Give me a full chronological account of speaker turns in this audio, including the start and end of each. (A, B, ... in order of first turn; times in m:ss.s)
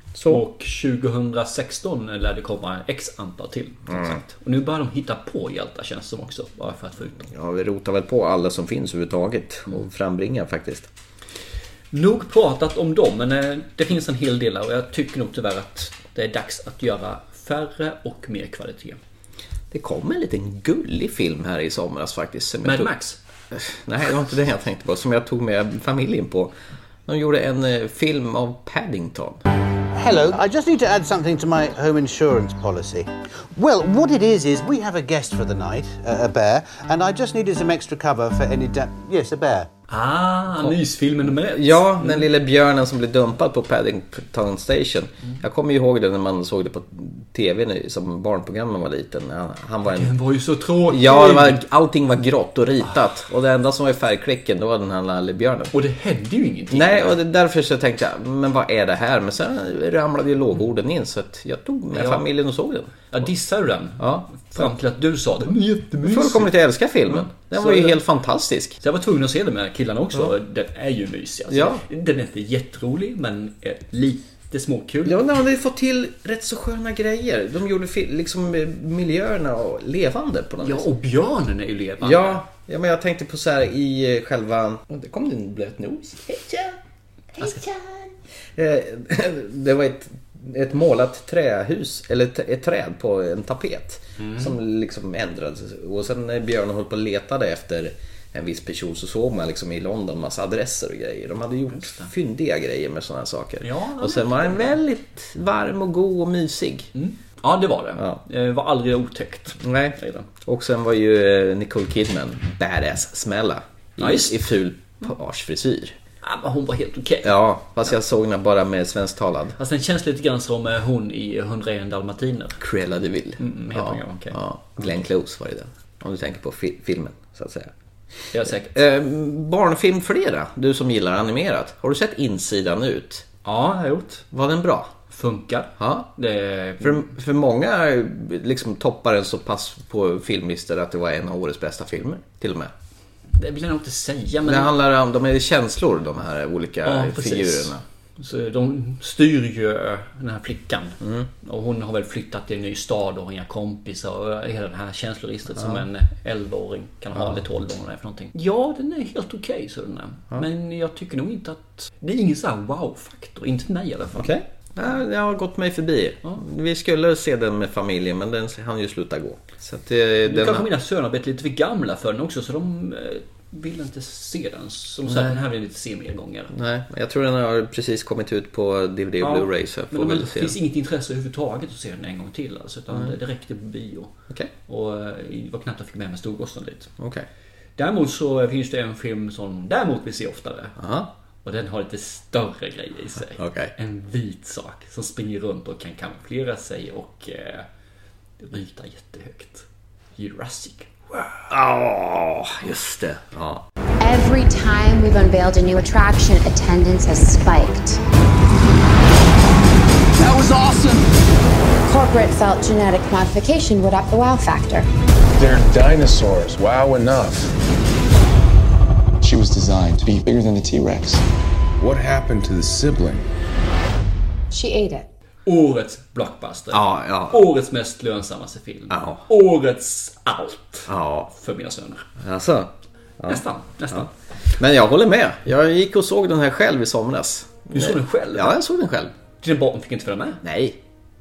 0:00.1-0:00.4 A
0:00.3-0:07.3 B
0:03.9-0:04.2 A
0:07.2-0:10.9 A
0:11.9-0:19.0 B
0:19.7-0:22.9 A
0:22.6-0:23.2 B
0:23.5-0:26.5 A
0:27.0-0:29.4 A
0:29.9-0:39.7 C
0:39.9-0:42.3 B
0:40.6-0:50.1 A
0:49.8-0:51.6 B
0:50.9-0:55.7 A
0:55.7-0:57.2 B
0:56.7-1:03.1 A
1:01.9-1:02.2 B
1:03.1-1:06.5 B
1:04.0-1:04.7 A
1:06.0-1:08.8 A
1:07.0-1:08.0 B
1:08.8-1:15.2 B
1:11.5-1:11.8 A
1:15.0-1:20.9 A
1:20.6-1:22.4 B
1:22.0-1:26.8 A
1:27.4-1:46.9 A
1:34.2-1:34.6 B
1:41.7-1:42.1 B
1:43.6-1:44.8 B
1:46.9-1:50.3 B
1:49.6-1:56.0 A
1:54.0-1:54.5 B
1:56.2-1:57.4 B
1:57.2-1:59.6 A
1:59.6-2:02.6 B
2:02.6-2:07.7 A
2:03.4-2:04.9 B
2:08.3-2:08.8 B
2:08.6-2:13.2 A
2:13.4-2:14.2 B
2:14.3-2:14.9 A
2:15.1-2:17.1 B
2:15.8-2:16.1 A
2:16.8-2:22.7 A
2:23.3-2:24.7 B
2:24.4-2:27.8 A
2:26.8-2:44.3 B
2:31.0-2:31.3 A
2:35.6-2:35.8 A
2:37.1-2:37.4 A
2:44.2-2:50.7 A
2:50.2-2:56.5 B
2:55.0-2:55.4 A
2:56.5-3:00.6 A
2:59.2-3:04.1 B
3:04.7-3:06.9 B
3:07.0-3:07.2 A
3:07.8-3:10.8 B
3:10.8-3:11.1 A
3:11.4-3:17.7 B
3:13.3-3:13.7 A
3:18.4-3:21.0 B
3:21.5-3:23.6 A
3:24.0-3:28.0 D
3:30.2-3:31.0 E
3:31.8-3:34.9 D
3:35.4-3:37.5 E
3:39.2-3:41.2 E
3:41.8-3:43.3 E
3:44.5-3:45.1 D
3:45.4-3:52.1 B
3:46.7-3:47.4 A
3:48.9-3:49.2 A
3:50.9-3:51.3 A
3:52.2-3:59.1 A
3:53.3-3:54.1 B
3:57.7-3:58.6 B
3:59.4-4:00.4 B
4:00.4-4:00.8 A